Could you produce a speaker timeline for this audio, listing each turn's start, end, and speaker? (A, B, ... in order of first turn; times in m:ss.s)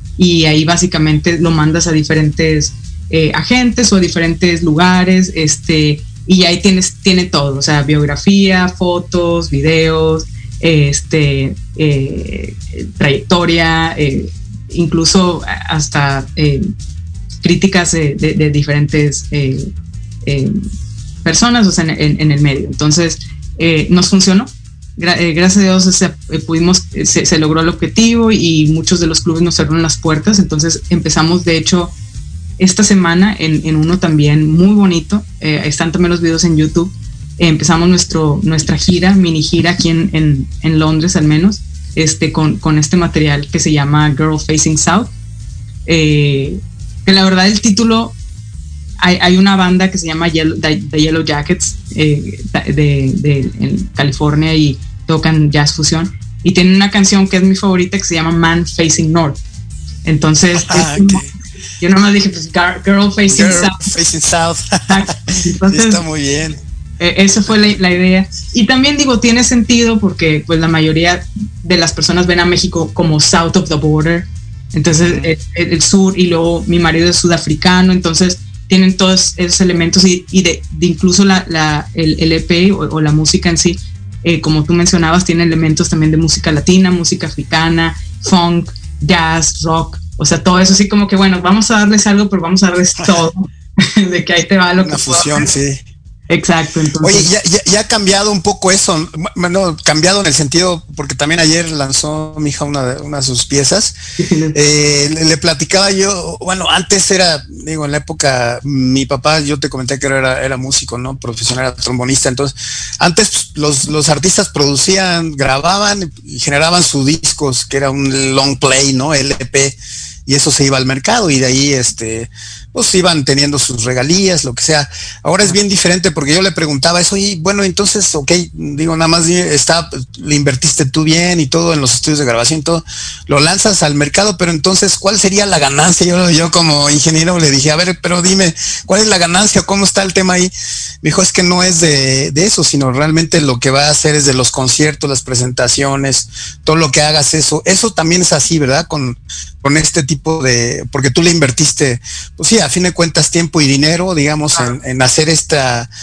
0:00.2-0:16.7 A
0:17.4-0:19.7 A
0:20.2-0:20.6 A
0:21.2-0:31.9 A
0:32.6-0:45.1 A
0:45.8-0:48.2 A
0:49.0-0:59.4 A
1:00.0-1:01.3 A
1:00.5-1:01.3 B
1:01.8-1:03.8 A
1:03.3-1:06.6 B
1:04.9-1:06.0 A
1:07.0-1:35.5 A
1:14.9-1:15.3 B
1:34.8-1:35.8 B
1:36.3-1:37.3 A
1:37.0-1:44.0 B
1:44.2-1:44.6 A
1:44.5-2:20.5 B
2:21.0-2:35.9 B